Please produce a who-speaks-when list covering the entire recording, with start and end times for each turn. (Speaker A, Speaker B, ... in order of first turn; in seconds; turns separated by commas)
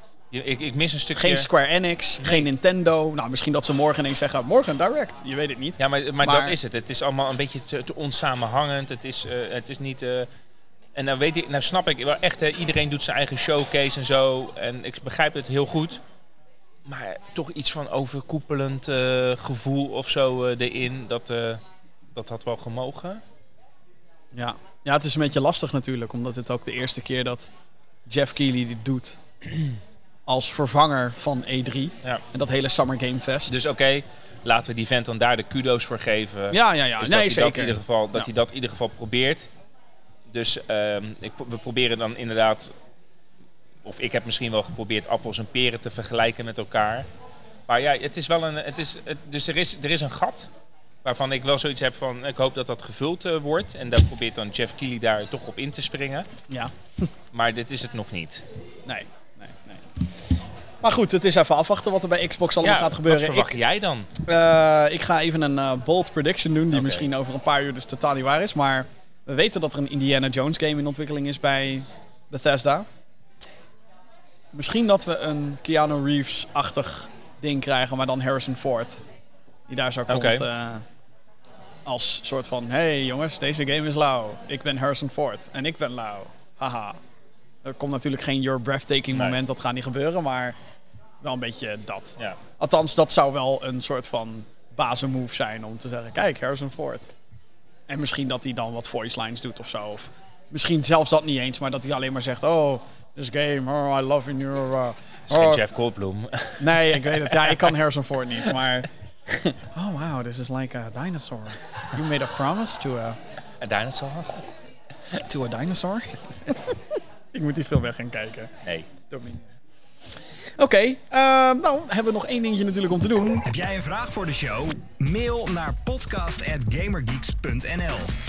Speaker A: 0.3-1.5, Speaker B: 1.1-6.6, Speaker A: 2.2-2.5, Speaker A: 5.8-10.3, Speaker A: 10.9-16.0, Speaker A: 16.9-21.6, Speaker A: 22.1-23.2, Speaker B: 24.3-27.5, Speaker B: 28.1-29.2, Speaker B: 30.2-33.5, Speaker A: 33.5-39.5, Speaker B: 36.5-38.3, Speaker A: 40.3-42.7, Speaker A: 43.8-47.1, Speaker A: 47.7-50.5, Speaker A: 51.0-56.3, Speaker B: 56.5-57.1, Speaker A: 57.3-58.5, Speaker B: 58.9-63.5, Speaker A: 62.6-64.1, Speaker B: 64.2-72.9, Speaker A: 66.7-67.1, Speaker B: 74.5-79.0, Speaker B: 79.7-80.8, Speaker A: 80.1-80.5, Speaker B: 81.8-87.0, Speaker B: 87.6-90.5, Speaker A: 89.1-89.4, Speaker B: 91.2-97.1, Speaker B: 97.9-105.6, Speaker A: 105.3-107.7, Speaker B: 106.6-113.2, Speaker A: 113.6-114.5, Speaker B: 115.1-118.5, Speaker A: 118.6-118.9, Speaker B: 119.1-119.5, Speaker B: 120.6-123.4, Speaker C: 123.5-128.1